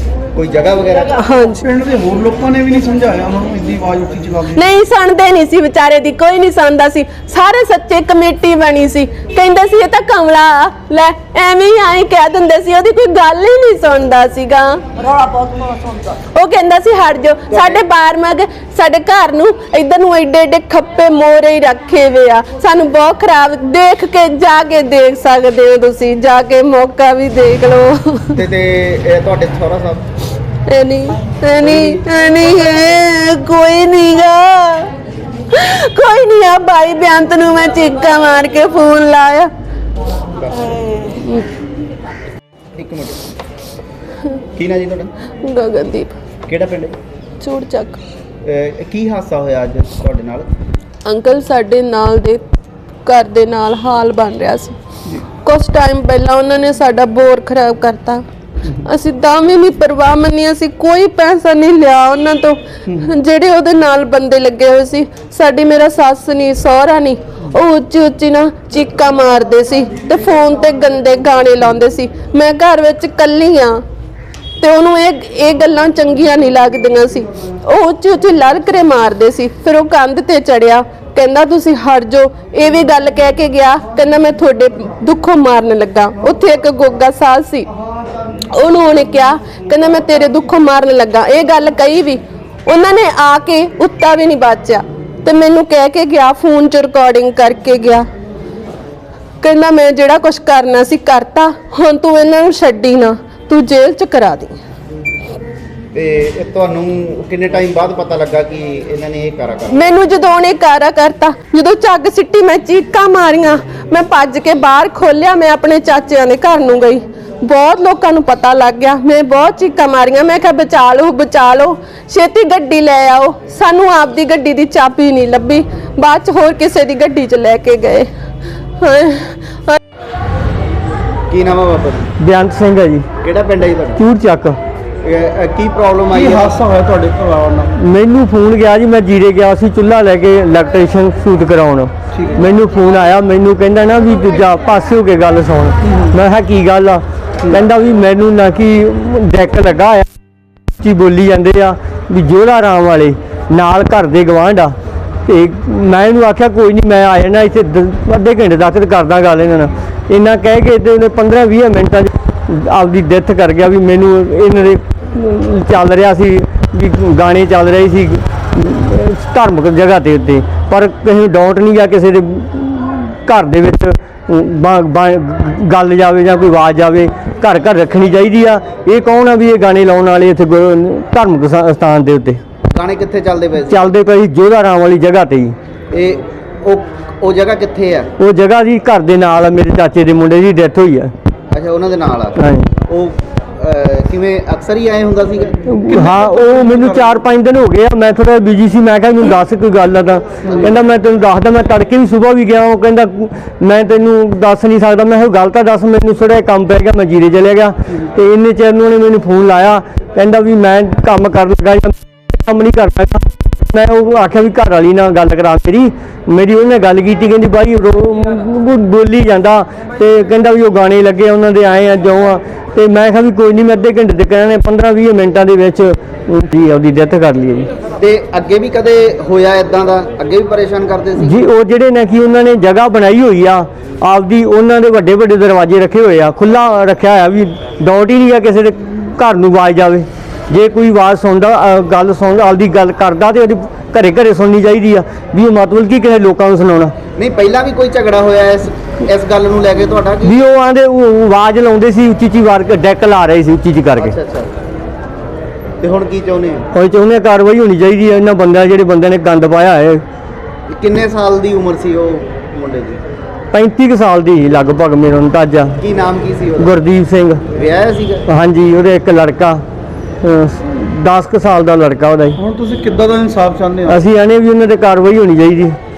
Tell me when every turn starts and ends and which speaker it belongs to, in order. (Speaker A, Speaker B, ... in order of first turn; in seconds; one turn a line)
Speaker A: 0.3-1.1
Speaker B: 1.0-1.6
Speaker C: 1.6-4.6
Speaker B: 4.5-14.9
Speaker B: 16.3-28.4
Speaker A: 17.5-17.8
Speaker A: 28.4-30.0
Speaker B: 30.7-34.9
Speaker A: 31.6-31.9
Speaker B: 35.5-39.5
Speaker B: 40.8-41.5
Speaker A: 42.7-43.3
Speaker A: 44.5-45.1
Speaker B: 45.4-46.1
Speaker A: 46.5-46.9
Speaker B: 47.4-48.0
Speaker A: 48.4-50.5
Speaker B: 51.0-52.5
Speaker B: 53.0-54.8
Speaker B: 55.4-73.8
Speaker B: 74.6-87.7
Speaker B: 88.5-98.1
Speaker B: 99.4-104.6
Speaker A: 105.9-109.9
Speaker B: 109.7-128.1
Speaker B: 128.8-129.8
Speaker A: 131.3-132.1
Speaker D: 132.2-133.0
Speaker A: 133.2-134.0
Speaker D: 134.0-134.6
Speaker A: 135.0-136.6
Speaker C: 136.1-137.7
Speaker D: 137.8-150.1
Speaker C: 142.1-142.4
Speaker C: 145.9-146.1
Speaker D: 150.8-154.7
Speaker D: 155.2-182.4
Speaker A: 182.7-183.8
Speaker D: 183.7-185.5
Speaker A: 185.9-188.1
Speaker D: 188.2-191.1
Speaker A: 191.5-195.7
Speaker D: 192.4-192.7
Speaker D: 195.7-227.7
Speaker C: 195.8-197.2
Speaker A: 228.0-231.4
Speaker D: 231.2-246.9
Speaker A: 247.2-250.3
Speaker D: 250.2-254.1
Speaker A: 254.0-254.5
Speaker A: 255.8-256.7
Speaker D: 256.7-260.0
Speaker A: 260.7-263.0
Speaker D: 263.5-265.8
Speaker A: 265.8-266.8
Speaker D: 266.6-267.4
Speaker A: 267.5-268.2
Speaker D: 268.3-269.6
Speaker D: 270.2-272.4
Speaker C: 272.4-274.1
Speaker D: 273.9-275.8